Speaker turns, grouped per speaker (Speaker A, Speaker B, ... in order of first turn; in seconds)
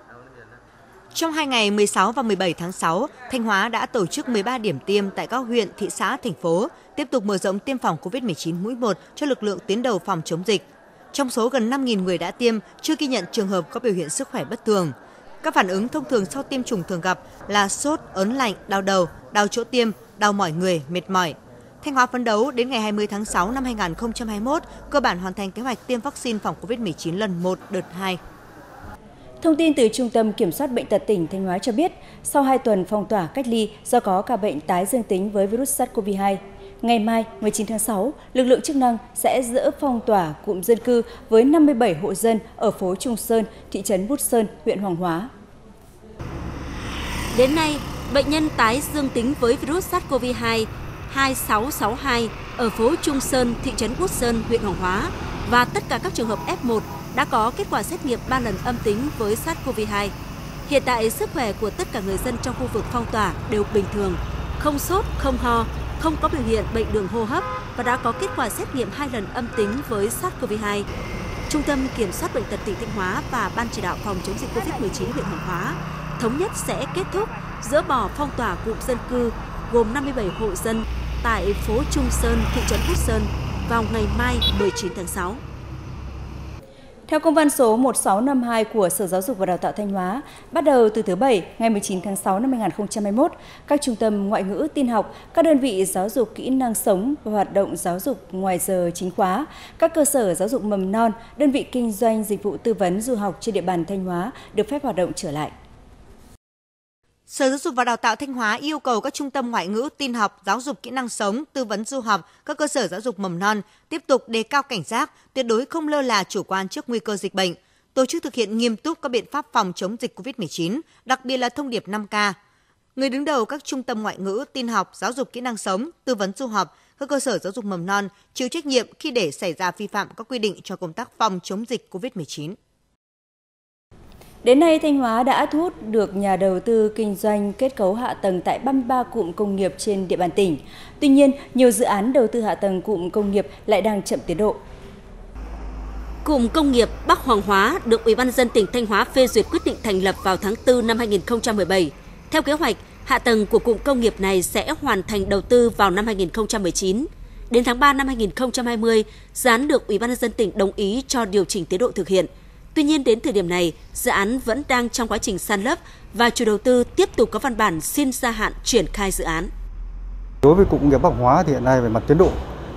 Speaker A: 1.1-28.2, 107.3-122.4, 123.0-132.6
Speaker B: 29.4-45.3, 87.1-105.5, 134.4-144.6
Speaker C: 47.3-60.1, 60.7-70.9, 71.5-85.4, 146.2-169.5
Speaker D: 170.4-172.4